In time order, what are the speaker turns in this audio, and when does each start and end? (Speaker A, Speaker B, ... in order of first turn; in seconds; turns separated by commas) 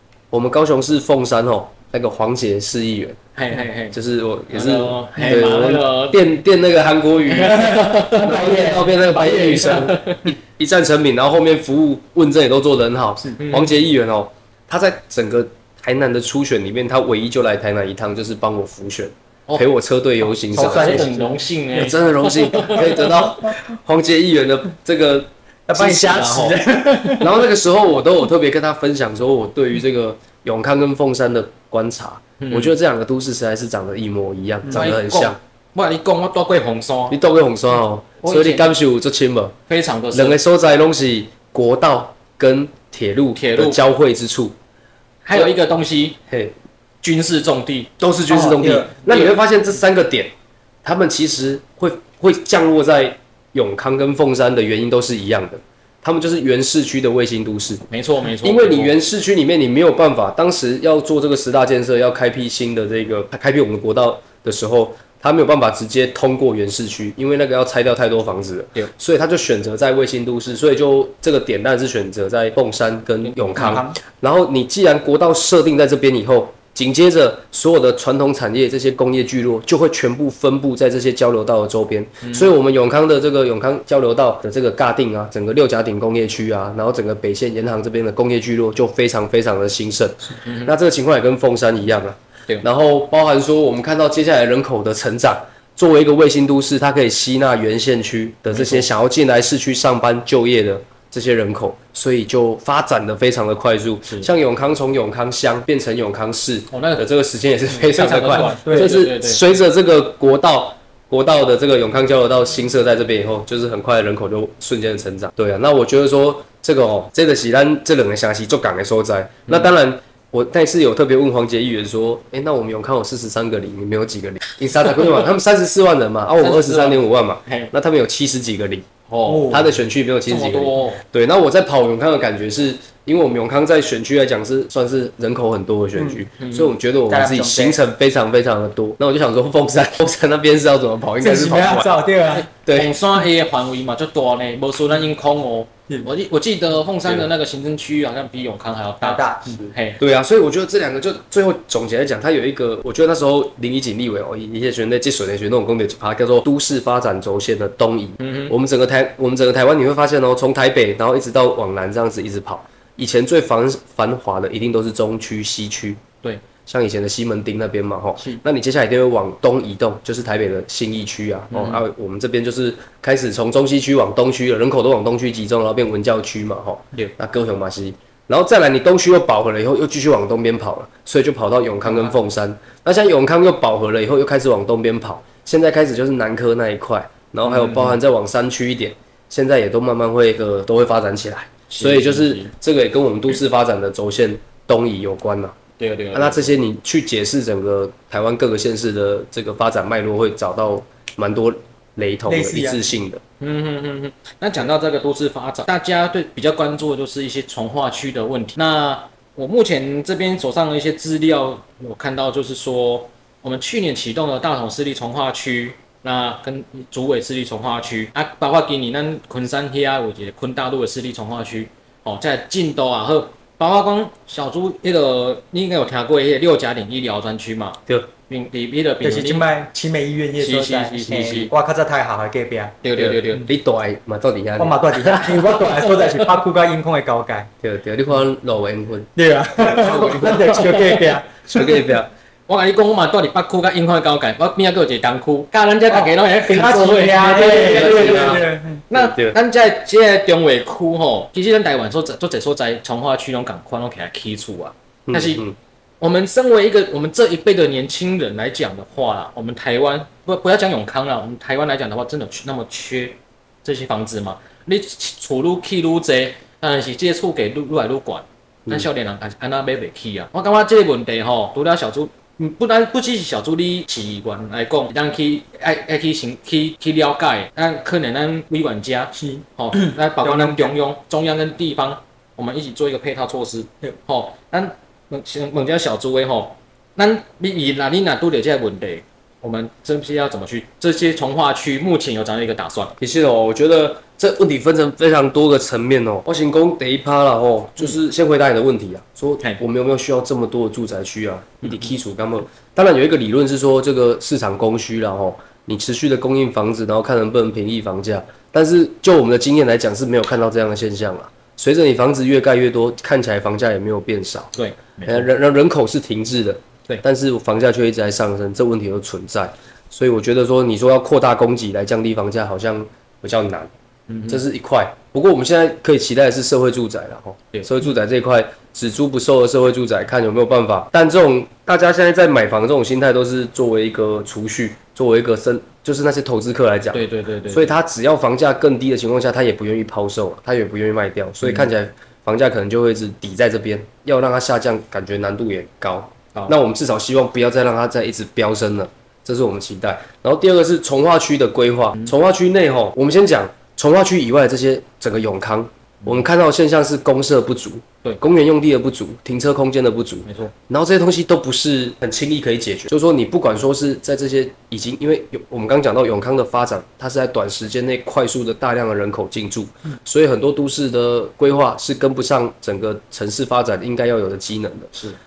Speaker A: 0.3-3.2, Speaker B: 3.4-4.0, Speaker A: 3.9-21.1, Speaker B: 4.5-6.4, Speaker B: 7.3-10.3, Speaker C: 8.3-9.9, Speaker B: 13.4-13.8, Speaker B: 20.5-23.3, Speaker C: 20.5-21.3, Speaker A: 21.8-26.2, Speaker C: 25.7-27.4, Speaker B: 25.8-27.1, Speaker A: 27.2-35.4, Speaker B: 32.4-32.7, Speaker C: 34.7-34.9, Speaker B: 34.7-37.2, Speaker A: 37.1-39.6, Speaker B: 38.2-38.7, Speaker B: 39.7-40.4, Speaker A: 40.1-44.5, Speaker B: 43.4-43.8, Speaker B: 45.2-46.2, Speaker A: 46.3-46.5, Speaker B: 47.0-47.9, Speaker A: 48.0-50.3, Speaker C: 48.3-49.0, Speaker B: 49.1-49.3, Speaker A: 50.8-128.9, Speaker B: 57.9-59.0, Speaker B: 73.2-73.8, Speaker C: 73.5-74.0, Speaker B: 82.2-82.5, Speaker B: 90.4-90.8, Speaker B: 98.5-98.9, Speaker B: 106.7-107.0, Speaker B: 107.9-109.4, Speaker C: 108.4-109.0, Speaker B: 119.5-119.7, Speaker B: 126.4-127.7, Speaker B: 129.1-129.6, Speaker C: 129.3-129.7, Speaker A: 129.5-142.0, Speaker B: 130.3-131.0, Speaker C: 136.0-136.2, Speaker B: 136.4-136.7, Speaker C: 137.1-137.8, Speaker C: 141.2-142.5, Speaker B: 142.3-150.0, Speaker A: 142.7-142.9, Speaker C: 149.0-149.6, Speaker A: 149.6-166.0, Speaker B: 158.2-158.6, Speaker A: 166.7-195.6, Speaker B: 171.5-171.8, Speaker B: 181.9-182.1, Speaker B: 187.4-188.0, Speaker B: 191.7-192.5, Speaker B: 195.8-196.6, Speaker A: 196.1-203.2, Speaker C: 202.3-202.9, Speaker B: 203.4-229.4, Speaker C: 229.0-232.8, Speaker B: 230.4-231.5, Speaker B: 232.8-233.5, Speaker A: 233.0-234.8, Speaker C: 234.6-237.5, Speaker A: 237.6-239.1, Speaker C: 239.2-241.5, Speaker B: 239.7-241.0, Speaker A: 240.0-240.3, Speaker A: 241.5-242.1, Speaker B: 242.5-255.4, Speaker C: 245.9-248.8, Speaker A: 247.4-249.4, Speaker A: 255.1-255.6, Speaker B: 256.0-293.0, Speaker C: 279.1-280.7, Speaker A: 293.0-314.5, Speaker B: 301.6-301.9, Speaker B: 314.5-315.3, Speaker A: 315.1-323.7, Speaker B: 324.1-324.4, Speaker A: 324.3-374.9, Speaker B: 336.9-337.7, Speaker B: 341.4-341.7, Speaker B: 360.3-360.5